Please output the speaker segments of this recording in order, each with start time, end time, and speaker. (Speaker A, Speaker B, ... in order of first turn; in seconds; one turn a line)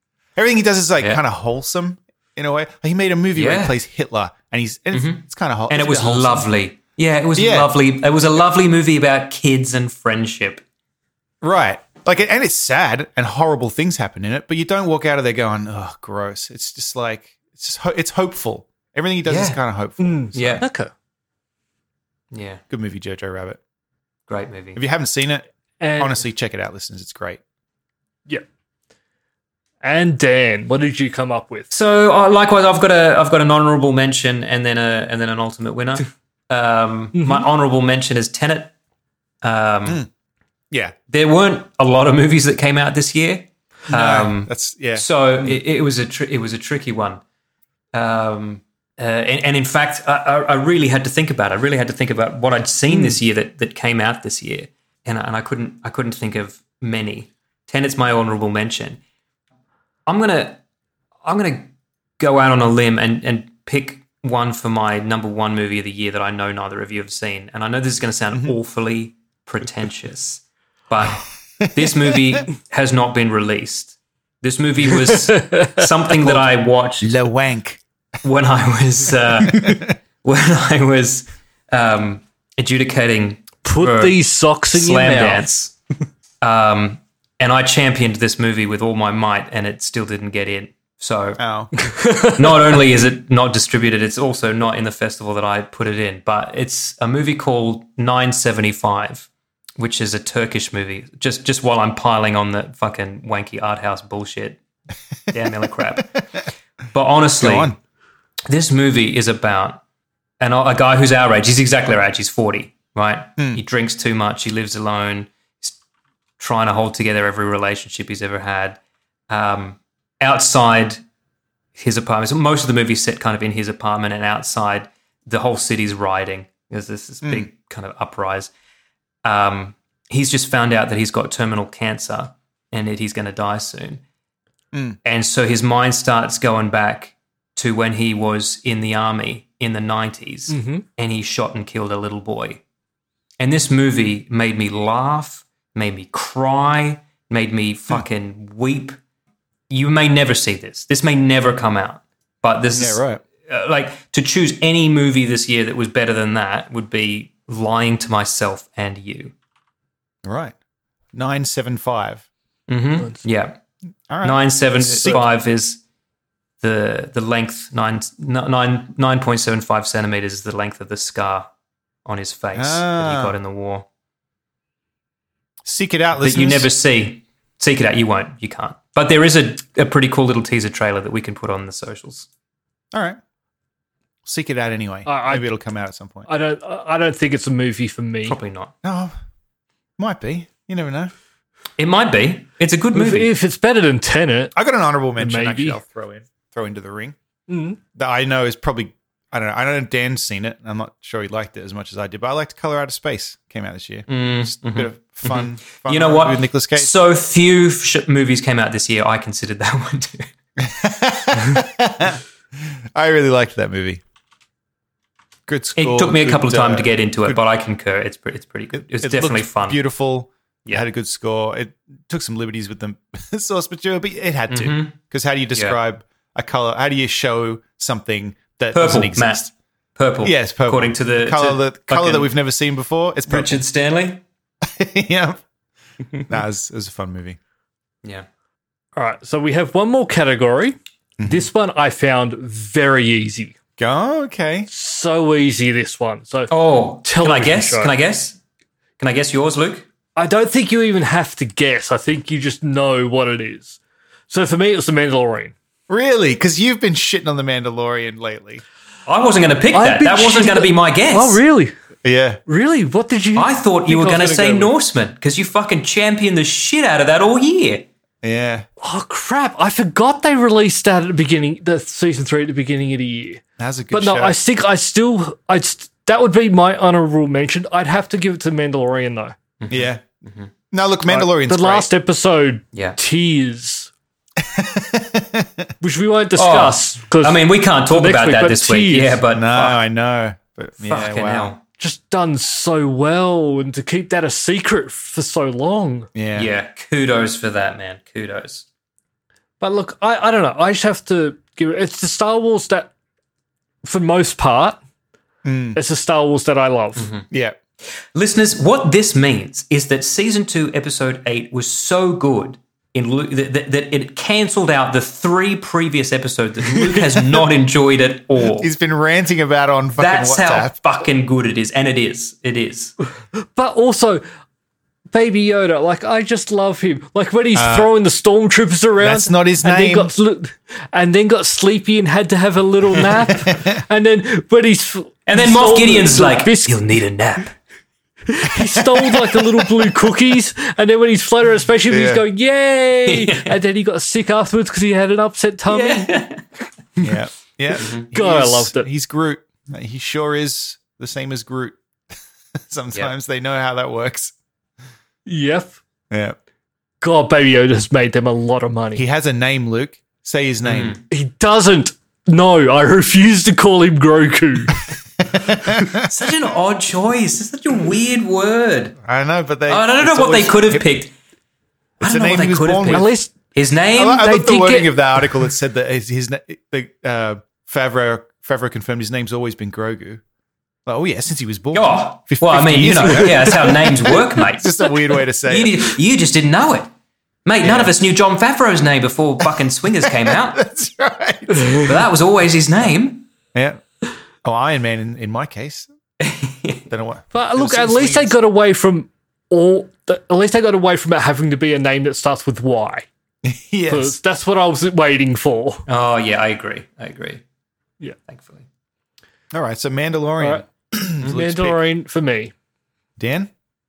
Speaker A: 0.3-6.5
Speaker B: 3.3-3.7
Speaker B: 4.9-10.6
Speaker A: 7.3-7.7
Speaker A: 11.4-20.6
Speaker B: 19.2-19.6
Speaker C: 20.0-20.9
Speaker B: 20.3-20.6
Speaker B: 22.3-22.6
Speaker A: 22.7-23.6
Speaker B: 24.3-24.8
Speaker A: 24.8-25.4
Speaker C: 25.8-26.2
Speaker A: 26.0-27.4
Speaker C: 29.8-31.7
Speaker B: 31.7-38.7
Speaker C: 37.1-37.5
Speaker B: 39.4-40.0
Speaker B: 41.1-47.2
Speaker A: 43.9-45.1
Speaker B: 47.9-59.0
Speaker C: 52.9-53.2
Speaker B: 60.0-60.6
Speaker B: 61.2-77.1
Speaker C: 75.0-75.8
Speaker A: 77.0-77.8
Speaker B: 78.2-84.2
Speaker A: 79.5-79.9
Speaker C: 83.6-85.5
Speaker B: 84.7-85.7
Speaker B: 86.4-91.4
Speaker A: 91.4-91.7
Speaker C: 91.8-92.7
Speaker B: 92.4-104.6
Speaker B: 105.3-106.1
Speaker B: 106.9-107.7
Speaker A: 107.4-107.8
Speaker B: 108.5-109.8
Speaker B: 110.4-115.8
Speaker B: 116.4-121.0
Speaker B: 121.8-128.5
Speaker B: 129.2-134.0
Speaker A: 134.7-135.0
Speaker B: 135.0-142.6
Speaker C: 140.5-140.8
Speaker B: 143.4-149.0
Speaker B: 149.7-159.3
Speaker A: 152.7-153.2
Speaker A: 160.2-160.5
Speaker A: 161.1-162.2
Speaker B: 162.7-163.6
Speaker A: 164.1-165.2
Speaker B: 164.2-165.8
Speaker B: 166.6-171.5
Speaker B: 172.0-173.8
Speaker A: 172.5-173.3
Speaker A: 175.6-176.7
Speaker B: 176.2-182.3
Speaker A: 182.9-183.2
Speaker A: 184.2-186.3
Speaker C: 185.1-185.4
Speaker C: 186.3-188.3
Speaker B: 188.3-188.7
Speaker A: 188.8-189.1
Speaker A: 190.0-191.1
Speaker B: 191.8-193.3
Speaker C: 192.9-194.5
Speaker A: 194.6-197.2
Speaker C: 195.2-195.8
Speaker C: 197.5-197.8
Speaker A: 197.9-206.9
Speaker B: 204.1-210.3
Speaker A: 210.6-214.0
Speaker A: 215.5-217.4
Speaker B: 215.8-219.8
Speaker A: 218.7-229.5
Speaker B: 224.5-224.9
Speaker B: 225.5-225.8
Speaker B: 228.7-229.4
Speaker B: 229.9-232.3
Speaker A: 230.2-233.6
Speaker B: 233.3-234.2
Speaker A: 234.6-235.4
Speaker A: 236.3-237.4
Speaker C: 238.9-240.7
Speaker A: 241.2-241.5
Speaker C: 241.3-243.6
Speaker A: 243.8-244.7
Speaker C: 244.7-246.5
Speaker B: 246.5-248.4
Speaker C: 247.0-247.9
Speaker B: 249.0-249.8
Speaker C: 250.2-255.5
Speaker A: 255.9-258.6
Speaker B: 259.1-261.4
Speaker C: 259.7-261.7
Speaker A: 262.0-262.4
Speaker C: 262.5-264.7
Speaker B: 263.4-267.9
Speaker A: 268.2-268.6
Speaker C: 268.8-279.3
Speaker A: 273.6-274.4
Speaker B: 279.6-280.5
Speaker A: 279.7-280.0
Speaker A: 280.7-281.9
Speaker C: 281.1-283.9
Speaker A: 284.4-285.7
Speaker C: 285.8-289.2
Speaker B: 286.4-289.8
Speaker A: 289.3-291.5
Speaker B: 290.8-291.6
Speaker C: 291.8-296.1
Speaker A: 296.1-296.5
Speaker B: 296.3-298.6
Speaker C: 299.6-302.9
Speaker C: 303.8-304.8
Speaker A: 305.4-305.8
Speaker C: 305.7-307.1
Speaker B: 306.9-307.2
Speaker A: 307.3-307.6
Speaker B: 308.1-318.7
Speaker A: 318.6-320.7
Speaker B: 320.0-322.9
Speaker C: 323.4-324.2
Speaker C: 325.1-336.7
Speaker A: 327.5-327.9
Speaker A: 329.0-330.1
Speaker A: 333.5-333.8
Speaker B: 335.3-337.5
Speaker C: 338.3-346.1
Speaker A: 338.8-339.6
Speaker A: 341.9-342.2
Speaker B: 343.1-343.5
Speaker B: 345.7-346.4
Speaker A: 347.0-351.8
Speaker B: 347.8-348.1
Speaker C: 348.1-348.9
Speaker A: 352.7-354.3
Speaker C: 355.2-355.8
Speaker A: 356.1-356.4
Speaker C: 357.0-359.0
Speaker A: 358.9-361.0
Speaker B: 360.6-361.0
Speaker C: 361.1-364.8
Speaker A: 365.3-366.0
Speaker B: 366.0-369.0
Speaker A: 369.0-370.8
Speaker B: 369.7-371.1
Speaker A: 372.0-373.1
Speaker B: 372.0-374.3
Speaker C: 372.9-373.3
Speaker A: 373.9-380.2
Speaker C: 374.1-375.0
Speaker A: 380.9-385.9
Speaker B: 381.7-386.9
Speaker B: 387.4-390.6
Speaker A: 387.6-387.9
Speaker A: 390.1-391.9
Speaker B: 391.8-393.2
Speaker A: 393.5-393.8
Speaker A: 394.4-395.9
Speaker B: 396.2-396.8
Speaker A: 396.9-398.3
Speaker C: 397.3-403.1
Speaker A: 403.4-404.2
Speaker C: 403.9-405.8
Speaker B: 405.9-407.4
Speaker B: 408.3-408.6
Speaker A: 409.5-411.8
Speaker C: 410.4-410.6
Speaker C: 411.2-412.5
Speaker A: 413.2-413.5